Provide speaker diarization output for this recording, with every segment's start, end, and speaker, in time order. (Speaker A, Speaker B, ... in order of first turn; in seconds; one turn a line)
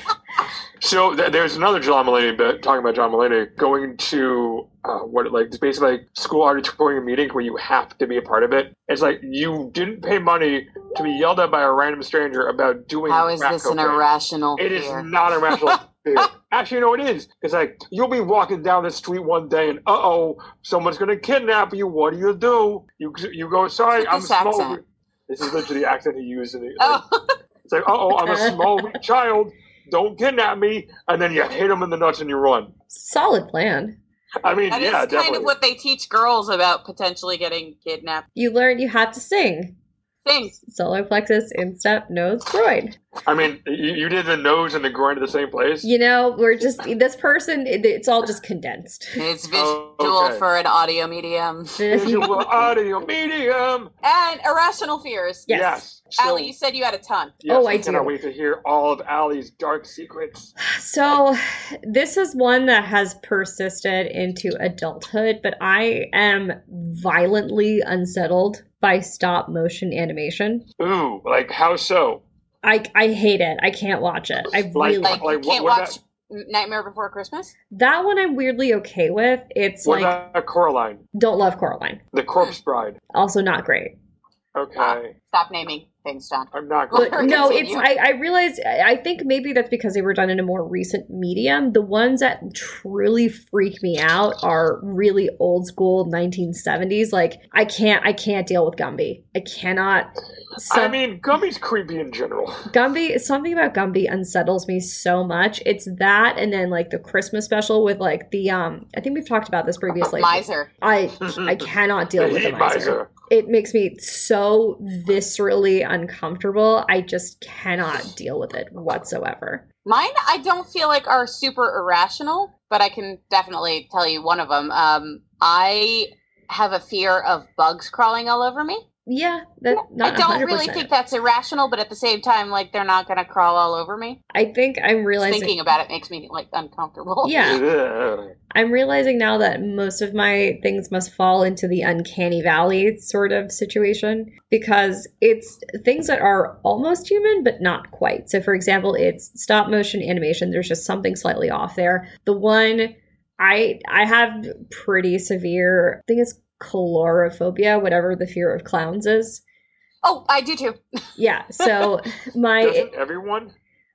Speaker A: 0.8-14.1
Speaker B: 13.1-15.7
Speaker A: 14.6-27.0
Speaker B: 23.9-24.8
Speaker B: 26.8-27.3
Speaker A: 27.7-32.7
Speaker C: 28.1-29.0
Speaker C: 32.9-34.0
Speaker A: 34.4-35.5
Speaker B: 34.7-38.2
Speaker C: 38.4-39.8
Speaker B: 40.2-40.6
Speaker C: 40.6-43.0
Speaker A: 43.3-45.9
Speaker C: 45.8-49.2
Speaker B: 49.2-52.2
Speaker A: 49.5-50.4
Speaker C: 51.8-52.7
Speaker A: 51.9-53.9
Speaker B: 54.0-55.5
Speaker C: 55.5-55.8
Speaker A: 55.5-56.5
Speaker B: 56.2-57.4
Speaker A: 57.4-60.5
Speaker C: 57.5-58.2
Speaker C: 60.6-70.6
Speaker A: 70.8-72.2
Speaker C: 72.6-75.5
Speaker A: 74.7-76.0
Speaker B: 75.0-77.5
Speaker C: 77.7-80.2
Speaker A: 79.8-81.0
Speaker C: 81.2-82.0
Speaker A: 82.1-83.0
Speaker C: 83.1-83.9
Speaker A: 84.6-85.1
Speaker B: 84.8-87.9
Speaker A: 86.5-87.7
Speaker C: 86.9-101.0
Speaker A: 100.7-102.6
Speaker C: 102.7-119.7
Speaker B: 110.0-110.7
Speaker A: 112.2-113.1
Speaker B: 119.8-128.8
Speaker C: 129.1-130.9
Speaker B: 129.7-134.2
Speaker C: 134.3-135.6
Speaker B: 135.2-137.6
Speaker C: 137.2-137.6
Speaker A: 137.4-138.3
Speaker C: 138.5-159.4
Speaker B: 160.0-160.8
Speaker C: 161.2-162.9
Speaker A: 162.6-163.5